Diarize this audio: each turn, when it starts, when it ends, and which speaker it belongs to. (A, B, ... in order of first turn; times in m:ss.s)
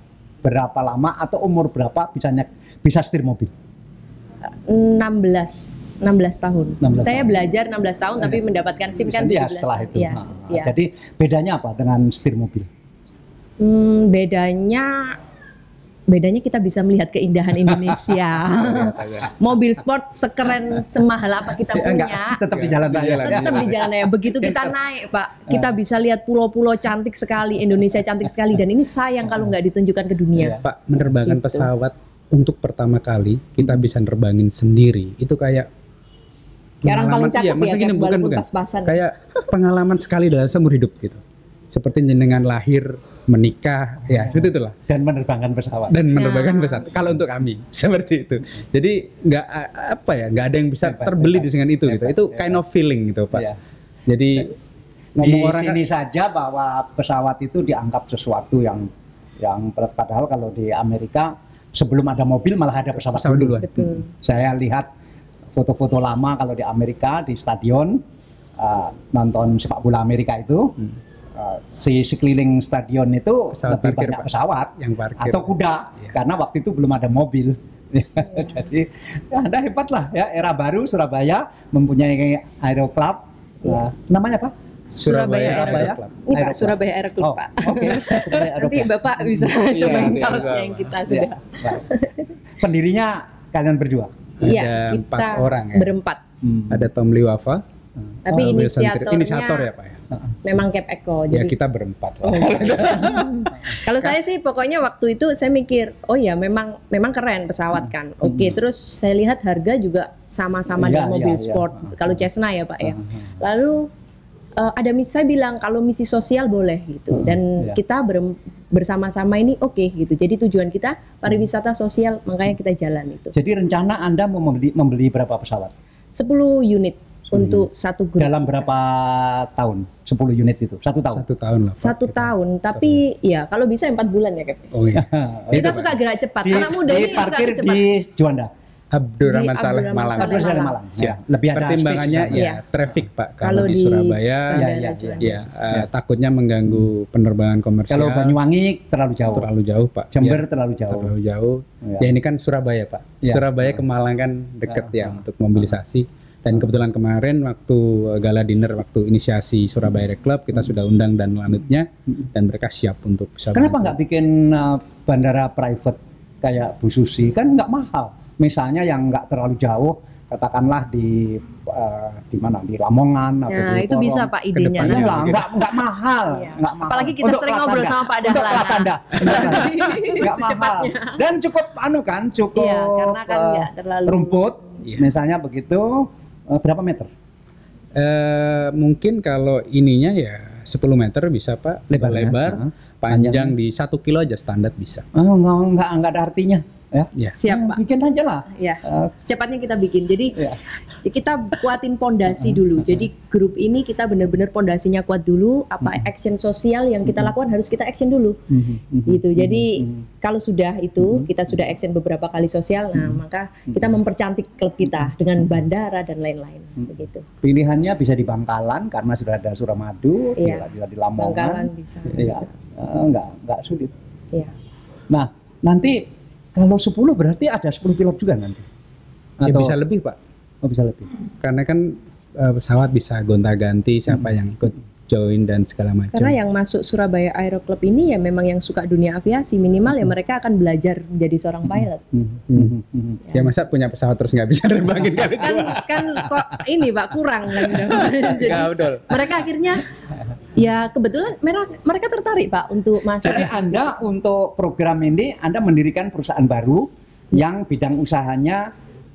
0:00.4-0:03.5 A
0:04.5-0:10.7 B
0:06.8-0:07.3 A
0:09.0-0:12.7 A
0:13.6-0:15.2 B
0:16.1-0:22.4 B
0:17.7-0:18.2 A
0:18.6-0:19.3 C
0:21.7-0:24.7 A
0:22.5-0:23.7 C
0:23.2-0:30.6 B
0:25.5-0:25.7 A
0:30.4-0:30.6 A
0:30.6-0:35.7 C
0:31.2-0:31.7 B
0:36.8-0:44.8 C
0:36.8-0:39.5 B
0:44.1-0:46.0 A
0:45.9-0:53.5 C
0:46.1-0:46.9 B
0:50.8-0:52.6 A
0:54.1-0:54.5 C
0:55.2-0:55.8 C
0:55.2-0:58.8 A
0:59.4-1:03.6 A
1:03.0-1:04.0 C
1:03.6-1:04.1 B
1:04.1-1:04.9 A
1:05.6-1:08.0 A
1:08.6-1:10.7 A
1:11.4-1:24.5 A
1:13.5-1:16.1 C
1:24.9-1:26.2 C
1:25.0-1:32.3 B
1:25.1-1:30.1 A
1:29.7-1:30.9 C
1:31.0-1:31.9 A
1:32.6-1:34.1 A
1:34.4-1:35.9 C
1:34.4-1:36.2 B
1:36.4-1:36.8 A
1:36.7-1:37.6 C
1:38.2-1:39.7 B
1:38.3-1:40.0 C
1:40.4-1:41.5 B
1:41.3-1:44.1 C
1:42.2-1:53.9 B
1:48.2-1:48.6 A
1:50.7-1:52.2 A
1:54.6-2:03.3 B
1:57.1-1:57.8 A
2:03.3-2:05.7 A
2:06.1-2:08.7 B
2:07.3-2:07.7 A
2:08.2-2:11.2 A
2:11.1-2:13.0 C
2:11.8-2:14.7 B
2:14.7-2:15.9 C
2:14.9-2:18.5 A
2:15.5-2:17.8 B
2:18.9-2:24.6 C
2:19.2-2:20.8 B
2:20.2-2:22.4 A
2:22.3-2:22.6 B
2:23.4-2:25.5 B
2:24.5-2:25.9 A
2:25.2-2:28.4 C
2:27.9-2:29.5 A
2:29.3-2:43.9 C
2:30.1-2:31.1 A
2:33.2-2:33.8 A
2:34.6-2:35.2 A
2:43.5-3:07.1 A
2:53.5-2:55.4 B
2:54.5-2:55.5 C
2:56.3-3:01.2 B
3:02.6-3:04.6 B
3:08.0-3:15.0 C
3:11.9-3:13.5 A
3:15.1-3:19.1 A
3:17.4-3:17.8 B
3:18.5-3:20.4 B
3:21.0-3:28.4 B
3:22.3-3:23.0 A
3:27.1-3:27.3 A
3:28.5-3:30.0 A
3:29.0-3:37.2 B
3:31.0-3:31.3 A
3:32.9-3:33.2 A
3:37.4-3:43.9 A
3:40.4-3:42.5 B
3:45.1-3:46.0 A
3:46.5-3:48.6 A
3:49.4-3:49.7 A
3:49.4-3:50.2 C
3:50.6-3:51.1 A
3:51.4-3:56.4 C
3:56.1-4:02.1 B
4:02.1-4:03.2 A
4:02.5-4:02.8 C
4:03.3-4:06.3 C
4:05.4-4:09.8 B
4:07.8-4:09.3 C
4:10.5-4:13.9 B
4:13.2-4:18.6 A